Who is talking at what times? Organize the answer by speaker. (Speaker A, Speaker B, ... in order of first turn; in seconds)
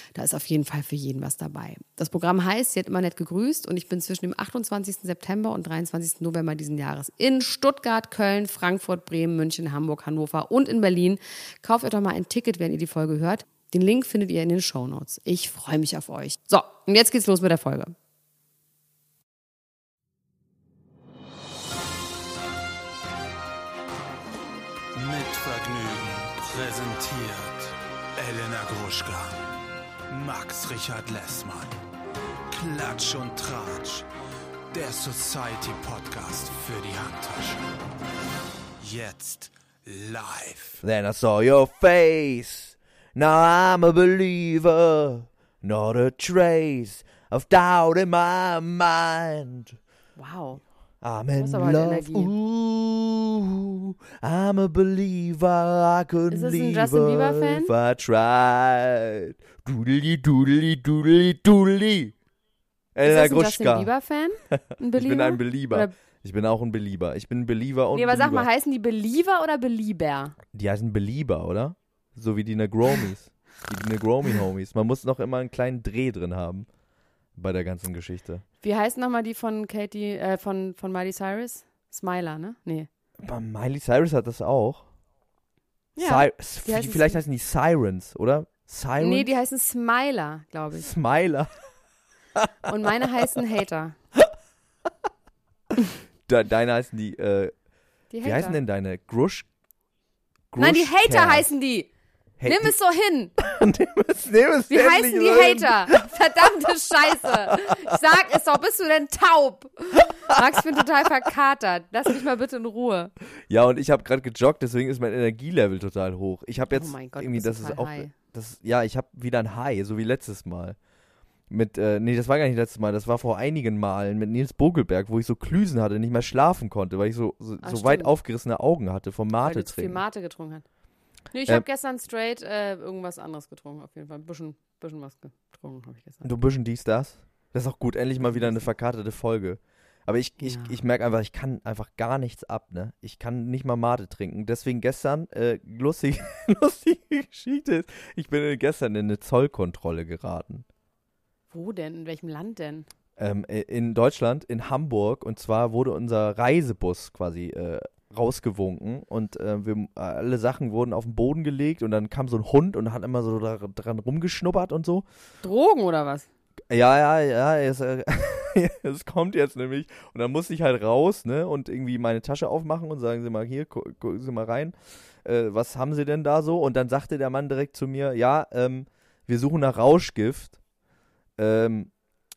Speaker A: 0.1-17.9, 50.2-50.6, 51.4-52.3, 56.3-57.7, 63.0-65.9, 67.9-70.3, 78.6-82.9, 86.0-87.2, 89.0-90.9, 92.7-94.0, 98.1-98.6, 100.6-101.9, 102.4-103.3, 104.7-113.1, 116.7-118.1, 127.6-128.1, 129.4-130.6, 131.3-136.3, 138.2-138.7, 140.4-140.8, 151.5-152.9, 165.4-166.3
Speaker B: 24.9-29.4, 30.1-31.8, 32.5-34.1, 34.7-37.6, 38.8-40.8
Speaker C: 40.8-49.8, 51.0-62.1, 62.9-63.9, 64.5-68.5, 70.5-76.7, 77.3-78.4, 83.2-84.9, 86.0-89.3, 90.8-91.5, 96.2-97.5, 98.2-99.5, 100.5-101.5, 102.4-102.7, 103.4-106.4, 107.1-107.8, 113.5-120.8, 121.5-130.0, 136.2-150.7, 153.2-165.1, 166.7-180.6, 181.4-181.9